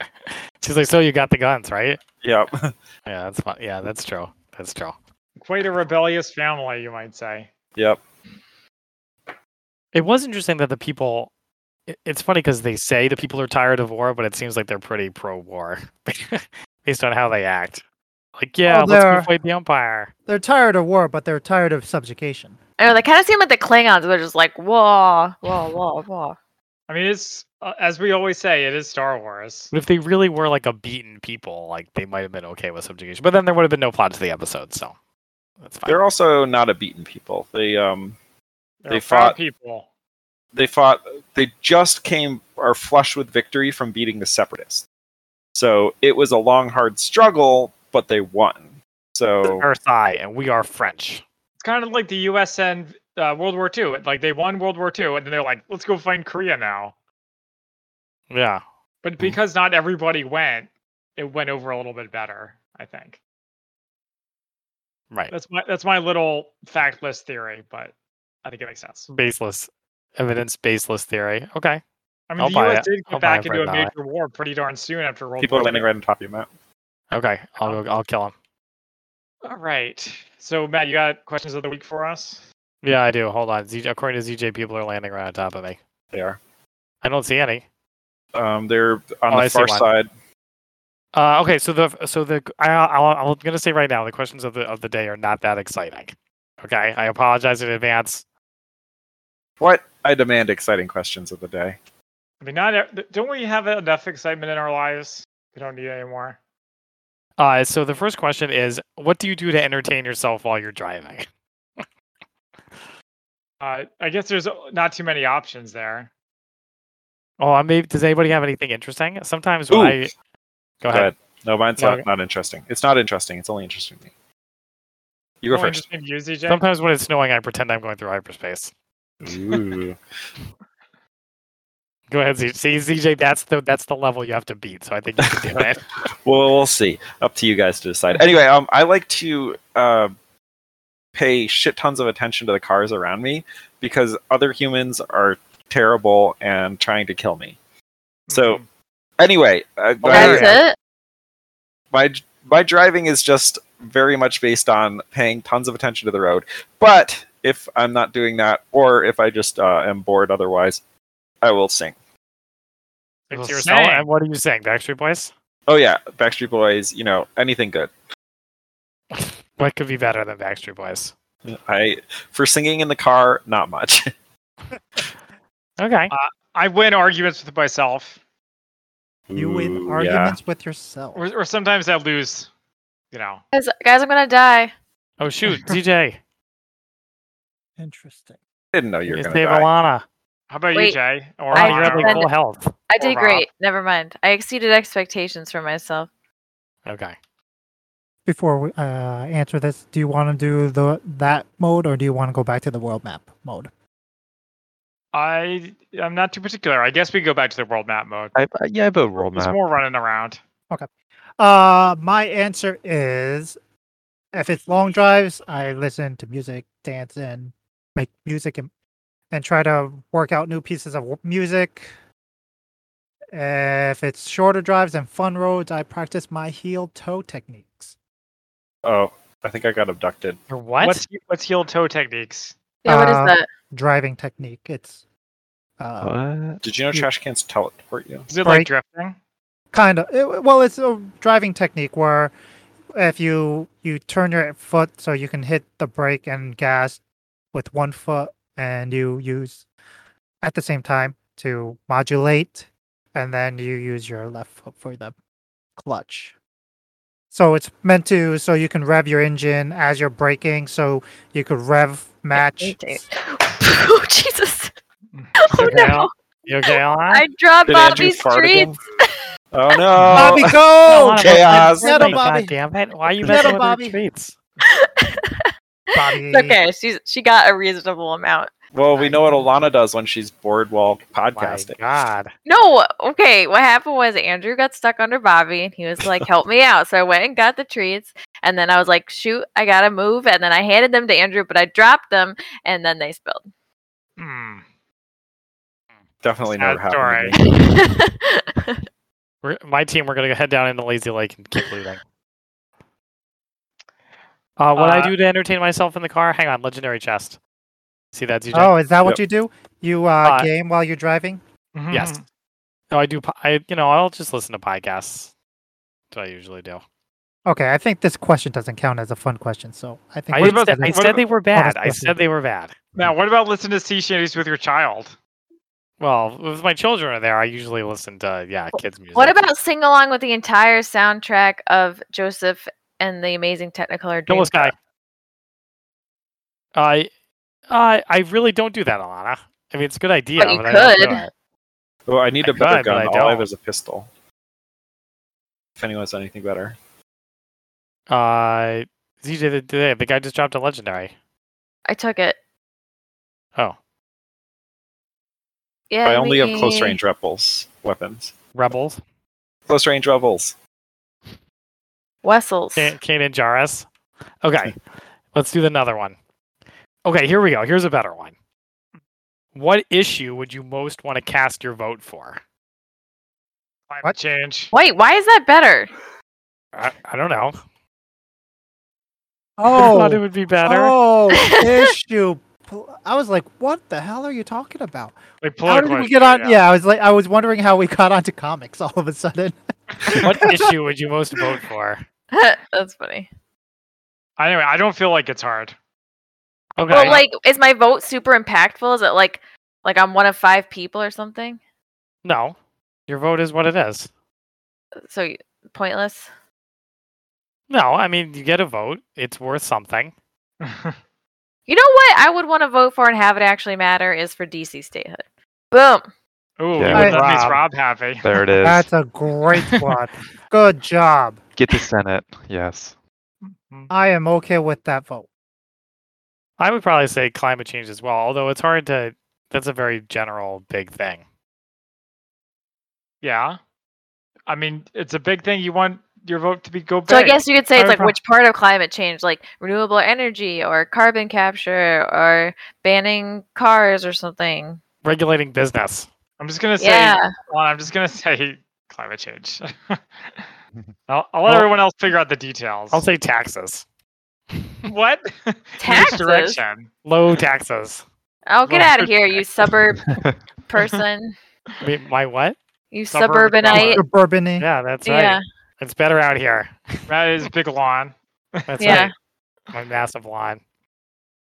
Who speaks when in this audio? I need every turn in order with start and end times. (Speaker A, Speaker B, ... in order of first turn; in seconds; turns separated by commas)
Speaker A: 0.3-2.0, Speaker B: 2.2-2.7, Speaker A: 3.0-5.0, Speaker C: 5.4-7.5, Speaker A: 9.9-11.3, Speaker A: 11.9-17.8, Speaker A: 18.4-20.1, Speaker D: 18.7-19.3, Speaker D: 20.3-22.6, Speaker E: 22.8-26.4, Speaker C: 26.9-29.7, Speaker A: 29.7-34.9, Speaker A: 35.6-36.0, Speaker B: 35.9-38.2, Speaker C: 38.8-39.9, Speaker B: 38.9-39.4, Speaker B: 40.5-44.8, Speaker B: 45.5-49.6, Speaker A: 49.4-51.2, Speaker C: 51.6-56.9, Speaker A: 58.3-58.6, Speaker C: 59.0-63.2, Speaker C: 65.3-67.9, Speaker C: 68.4-69.1, Speaker A: 69.1-71.8, Speaker C: 72.3-75.9, Speaker A: 72.4-73.9, Speaker B: 75.4-76.5, Speaker A: 77.1-78.3, Speaker C: 79.4-82.4, Speaker A: 82.8-85.8, Speaker B: 86.1-86.4, Speaker A: 87.0-87.6, Speaker B: 88.3-90.1, Speaker A: 89.3-89.9, Speaker A: 91.1-98.2, Speaker B: 99.6-101.8, Speaker C: 102.4-106.4, Speaker A: 107.4-111.2, Speaker C: 113.6-116.1, Speaker A: 117.4-120.1, Speaker B: 119.7-120.0, Speaker A: 120.8-121.1, Speaker B: 120.9-124.1, Speaker A: 121.8-122.0, Speaker B: 125.4-125.8, Speaker C: 125.5-126.6, Speaker A: 126.5-128.7, Speaker B: 129.2-130.0, Speaker A: 132.1-135.8, Speaker B: 135.3-135.6, Speaker B: 136.2-140.1, Speaker B: 141.1-147.6, Speaker C: 148.3-148.6, Speaker B: 148.3-148.6, Speaker B: 149.2-150.6, Speaker E: 150.1-150.8, Speaker C: 150.1-150.5, Speaker B: 151.9-160.8, Speaker B: 161.4-161.9, Speaker C: 163.3-164.1, Speaker A: 163.3-165.3, Speaker B: 165.7-167.9, Speaker A: 169.1-171.1, Speaker B: 171.4-174.1, Speaker A: 175.8-176.1, Speaker C: 176.1-178.2, Speaker B: 179.3-180.3, Speaker D: 179.3-181.2, Speaker C: 181.1-182.5, Speaker C: 183.1-183.4, Speaker E: 183.5-184.7, Speaker A: 185.2-186.2, Speaker D: 187.8-188.4, Speaker B: 188.7-189.7, Speaker A: 189.1-190.0, Speaker C: 190.5-192.3, Speaker E: 190.7-191.0, Speaker E: 191.5-192.3, Speaker A: 191.5-192.7, Speaker E: 192.9-196.1, Speaker C: 193.0-193.4, Speaker A: 196.9-197.1, Speaker D: 198.2-203.7, Speaker C: 205.1-208.3, Speaker F: 208.3-209.6, Speaker C: 209.3-210.4, Speaker D: 211.4-213.6, Speaker D: 214.3-218.7, Speaker D: 219.3-221.9, Speaker D: 223.3-227.9, Speaker B: 228.8-230.4, Speaker A: 230.5-231.0, Speaker C: 230.8-232.5, Speaker E: 232.8-233.5, Speaker D: 232.9-235.0, Speaker D: 235.8-236.1, Speaker F: 236.0-236.6, Speaker B: 236.6-238.3, Speaker C: 238.3-239.2, Speaker D: 238.4-238.7, Speaker D: 239.7-242.3, Speaker D: 242.9-247.0, Speaker D: 247.5-249.6, Speaker D: 250.4-255.1, Speaker D: 255.8-256.3, Speaker D: 257.3-263.0, Speaker E: 262.3-264.7, Speaker C: 265.1-266.0, Speaker E: 265.4-266.1, Speaker A: 265.6-267.2, Speaker E: 267.1-269.8, Speaker B: 267.6-268.8, Speaker B: 269.5-270.6, Speaker C: 269.9-270.2, Speaker D: 270.1-272.6, Speaker A: 270.9-274.3, Speaker B: 271.2-272.2, Speaker D: 273.2-274.0, Speaker E: 274.6-278.5, Speaker D: 275.9-276.6, Speaker B: 278.7-281.8, Speaker C: 279.0-279.4, Speaker A: 281.3-282.3, Speaker E: 282.4-293.4, Speaker C: 294.2-294.6, Speaker B: 296.2-297.4, Speaker C: 296.5-297.4, Speaker E: 297.4-298.8, Speaker A: 299.4-302.0, Speaker A: 304.6-307.4, Speaker C: 304.8-305.1, Speaker A: 308.1-308.7, Speaker D: 308.5-311.4, Speaker C: 311.7-312.2, Speaker A: 311.9-312.2, Speaker A: 312.9-315.3, Speaker A: 316.1-316.8, Speaker D: 317.4-322.1, Speaker A: 320.3-322.7, Speaker C: 320.4-321.2, Speaker C: 322.9-325.1, Speaker A: 326.0-329.4, Speaker E: 329.1-334.7, Speaker A: 334.3-334.7, Speaker A: 336.7-337.1, Speaker A: 337.7-341.3, Speaker E: 340.4-341.2, Speaker B: 342.1-344.1, Speaker A: 342.4-343.5, Speaker B: 345.8-346.8, Speaker A: 348.1-351.1, Speaker E: 351.9-352.4, Speaker E: 355.9-357.0, Speaker B: 356.0-358.3, Speaker A: 358.5-359.0, Speaker B: 359.7-360.5, Speaker E: 362.2-362.9, Speaker A: 362.8-363.9, Speaker A: 364.4-364.7, Speaker A: 365.3-366.2, Speaker A: 367.0-368.3, Speaker A: 369.5-372.4, Speaker C: 373.9-374.7, Speaker E: 374.7-375.9, Speaker A: 376.7-377.5, Speaker D: 379.6-390.6, Speaker A: 379.7-380.9, Speaker E: 381.3-381.9, Speaker C: 385.4-386.6, Speaker A: 390.1-392.0, Speaker E: 392.3-393.3, Speaker C: 394.4-395.7, Speaker A: 396.8-397.2, Speaker E: 396.9-401.6, Speaker C: 396.9-397.2, Speaker A: 402.2-402.6, Speaker A: 403.1-404.1, Speaker E: 405.1-406.3, Speaker A: 407.7-410.1, Speaker C: 410.6-410.9, Speaker E: 411.7-416.1, Speaker C: 416.6-418.3, Speaker F: 416.8-417.1, Speaker A: 416.9-417.6, Speaker D: 416.9-417.3, Speaker F: 418.2-418.9, Speaker D: 418.6-421.4, Speaker F: 421.6-422.9, Speaker C: 423.4-423.9, Speaker D: 423.9-425.3, Speaker A: 426.6-431.2, Speaker C: 433.2-433.6, Speaker C: 434.5-438.1, Speaker E: 437.1-444.8, Speaker A: 445.0-446.1, Speaker C: 446.4-450.0, Speaker E: 446.8-447.3, Speaker C: 451.1-453.1, Speaker A: 452.9-453.8, Speaker C: 454.8-456.9, Speaker E: 455.8-456.6, Speaker A: 457.0-458.0, Speaker E: 458.5-460.0, Speaker C: 458.7-459.4, Speaker F: 460.1-460.4, Speaker E: 460.7-461.4, Speaker A: 461.8-462.6, Speaker E: 462.9-464.0, Speaker C: 463.1-464.0, Speaker D: 463.7-464.6, Speaker A: 464.6-467.1, Speaker E: 465.0-465.4, Speaker C: 467.1-469.1, Speaker A: 468.7-469.1, Speaker E: 468.8-469.1, Speaker A: 469.7-470.6